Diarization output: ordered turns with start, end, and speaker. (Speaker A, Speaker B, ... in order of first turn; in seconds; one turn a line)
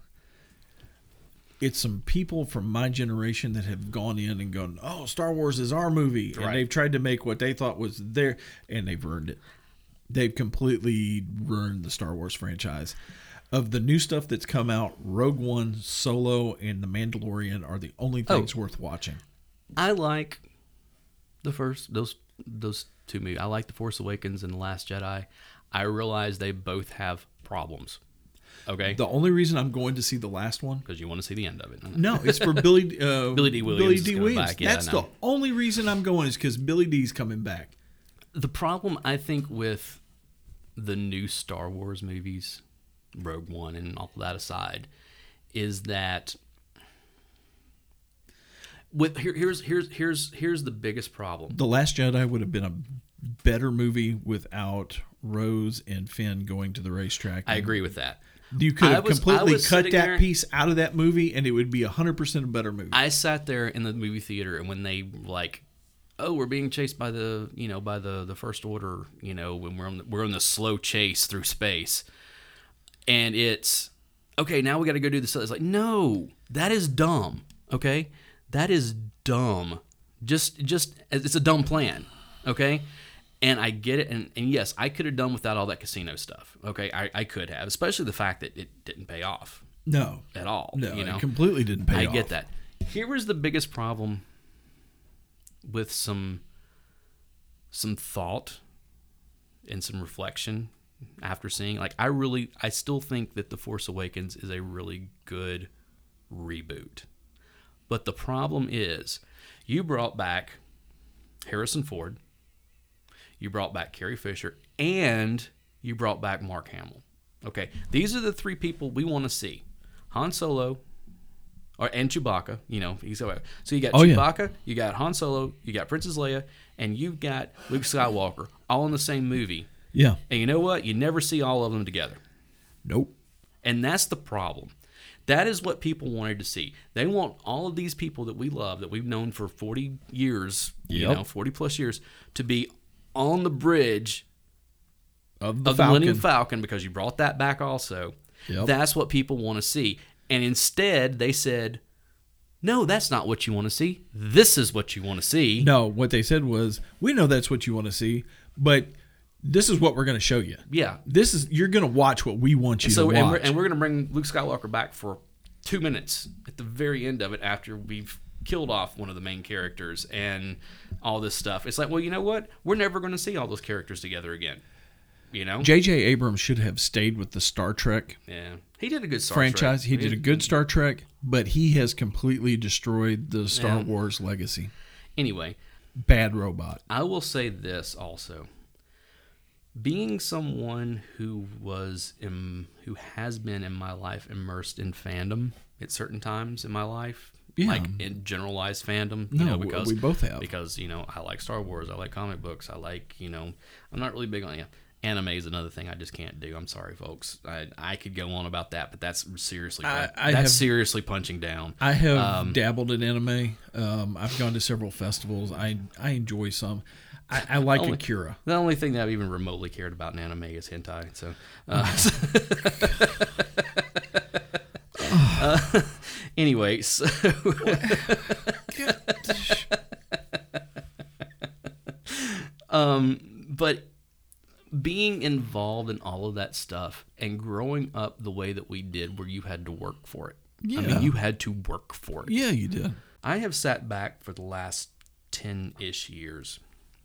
Speaker A: 1.6-9.4
Speaker B: 6.3-6.6
Speaker A: 10.1-12.9
Speaker A: 13.5-19.2
Speaker B: 19.8-20.4
Speaker B: 21.4-28.0
Speaker B: 28.6-29.0
Speaker A: 28.9-30.8
Speaker B: 30.9-32.8
Speaker A: 31.9-37.7
Speaker B: 33.3-35.0
Speaker B: 38.3-40.0
Speaker B: 40.8-42.6
Speaker B: 43.1-44.9
Speaker B: 45.5-46.4
Speaker B: 48.9-51.6
Speaker A: 51.5-57.8
Speaker B: 57.5-58.2
Speaker A: 58.5-63.0
Speaker B: 58.8-60.3
Speaker B: 62.9-65.6
Speaker B: 66.2-72.0
Speaker B: 73.1-82.8
Speaker B: 83.4-89.6
Speaker A: 89.8-92.3
Speaker B: 90.3-91.3
Speaker B: 91.9-94.2
Speaker B: 95.6-96.4
Speaker B: 97.7-98.6
Speaker B: 99.7-105.7
Speaker B: 106.3-107.0
Speaker B: 107.9-110.6
Speaker B: 111.5-112.2
Speaker B: 113.4-120.8
Speaker B: 121.8-129.7
Speaker A: 123.9-124.2
Speaker A: 129.9-130.2
Speaker B: 130.3-132.2
Speaker A: 132.8-133.1
Speaker B: 133.6-134.7
Speaker B: 135.3-144.2
Speaker A: 140.9-141.2
Speaker A: 145.4-146.2
Speaker B: 145.6-151.8
Speaker B: 152.6-155.7
Speaker A: 155.6-163.6
Speaker B: 160.7-161.0
Speaker B: 162.8-174.6
Speaker B: 175.3-175.7
Speaker A: 175.6-178.2
Speaker B: 178.3-180.5
Speaker A: 179.3-184.7
Speaker B: 183.5-183.9
Speaker B: 185.2-185.6
Speaker A: 186.0-186.8
Speaker B: 186.9-188.5
Speaker B: 189.8-212.6
Speaker A: 197.6-198.0
Speaker A: 199.3-200.5
Speaker A: 209.8-210.7
Speaker A: 211.8-218.4
Speaker B: 217.5-224.0
Speaker A: 221.7-223.1
Speaker A: 225.0-225.6
Speaker B: 225.0-230.6
Speaker A: 227.6-229.7
Speaker B: 232.1-233.9
Speaker B: 234.7-242.4
Speaker A: 240.6-241.1
Speaker A: 242.2-243.0
Speaker B: 243.2-246.6